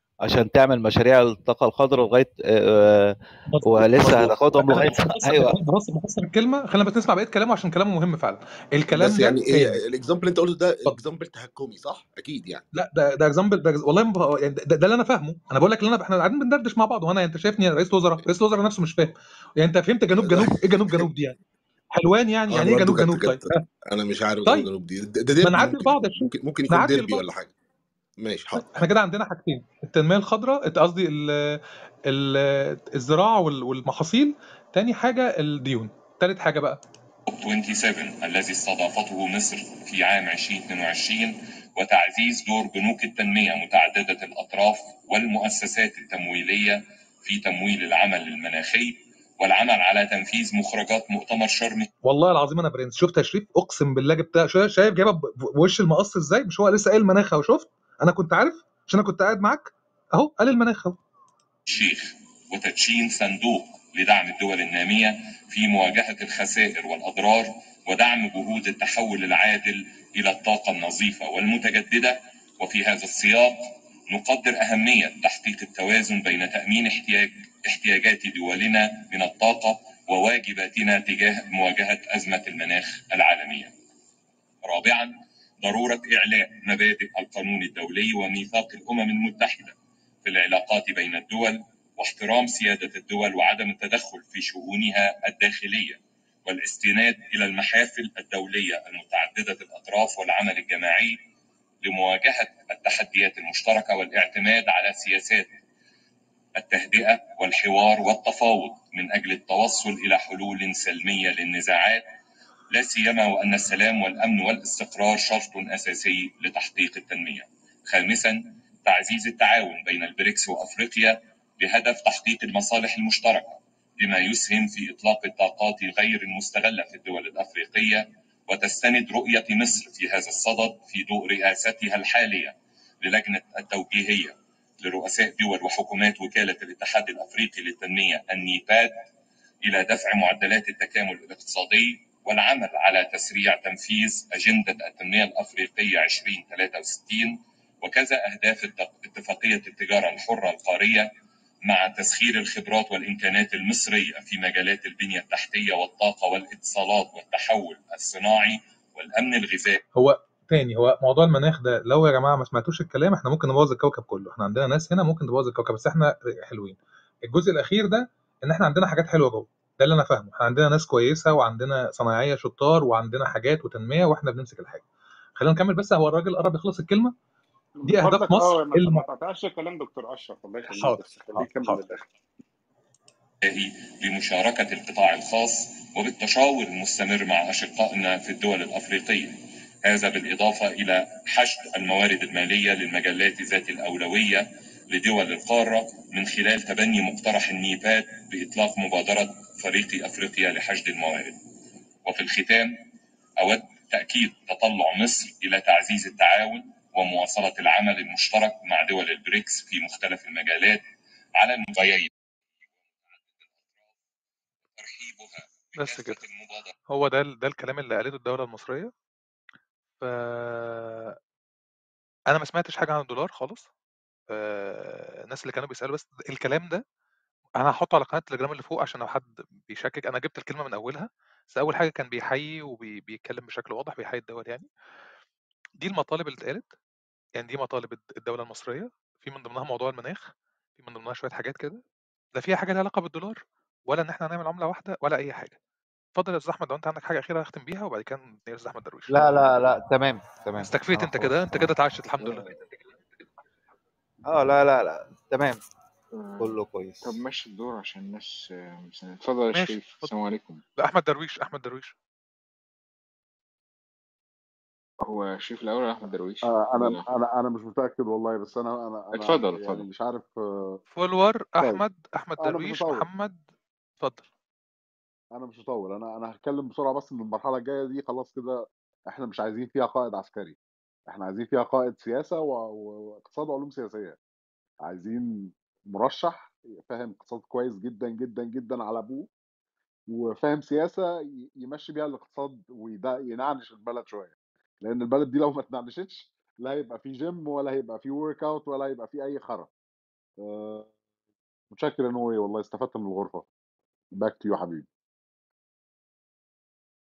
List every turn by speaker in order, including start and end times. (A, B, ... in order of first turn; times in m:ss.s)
0:00.3-0:05.6 A
0:03.5-0:09.8 B
0:08.9-0:12.6 C
0:12.7-0:21.4 B
0:20.2-0:21.0 C
0:21.9-0:23.6 B
0:22.5-0:27.5 C
0:25.4-0:27.2 B
0:28.2-0:28.7 C
0:28.5-0:36.8 B
0:37.3-0:51.9 D
0:52.0-1:01.0 B
1:01.7-1:23.7 D
1:24.6-1:41.2 D
1:41.8-1:45.5 D
1:46.6-1:52.0 D
1:52.7-2:19.0 D
2:19.6-2:31.1 D
2:31.7-2:39.8 D
2:40.0-2:54.8 B
2:55.4-2:57.2 B
2:57.8-3:02.1 E
2:57.9-2:59.1 B
3:00.7-3:01.9 B
3:03.4-3:21.4 D
3:22.0-3:22.8 D
3:23.4-3:30.8 D
3:31.4-3:32.1 D
3:33.1-3:33.9 D
3:34.8-3:36.7 D
3:35.8-3:36.2 B
3:36.9-3:38.9 B
3:40.0-3:41.2 B
3:42.3-3:43.7 B
3:44.3-3:46.8 B
3:47.6-3:54.7 B
3:55.8-3:56.7 B
3:57.4-4:01.8 B
4:02.4-4:05.6 B
4:06.2-4:09.2 B
4:09.1-4:12.5 A
4:10.6-4:12.5 B
4:14.3-4:15.6 A
4:16.1-4:20.6 F
4:16.4-4:17.1 A
4:19.5-4:20.1 B
4:20.8-4:21.9 B
4:25.0-4:27.1 F
4:26.5-4:30.8 G
4:29.1-4:29.9 F
4:30.9-4:33.4 B
4:31.6-4:31.8 G
4:32.4-4:33.1 G
4:34.0-4:34.3 B
4:35.4-4:40.6 G
4:41.1-4:44.2 G
4:44.8-4:49.3 G
4:50.1-4:51.1 G
4:51.6-4:59.7 G
5:00.4-5:00.9 G
5:01.7-5:03.5 G
5:04.2-5:04.9 G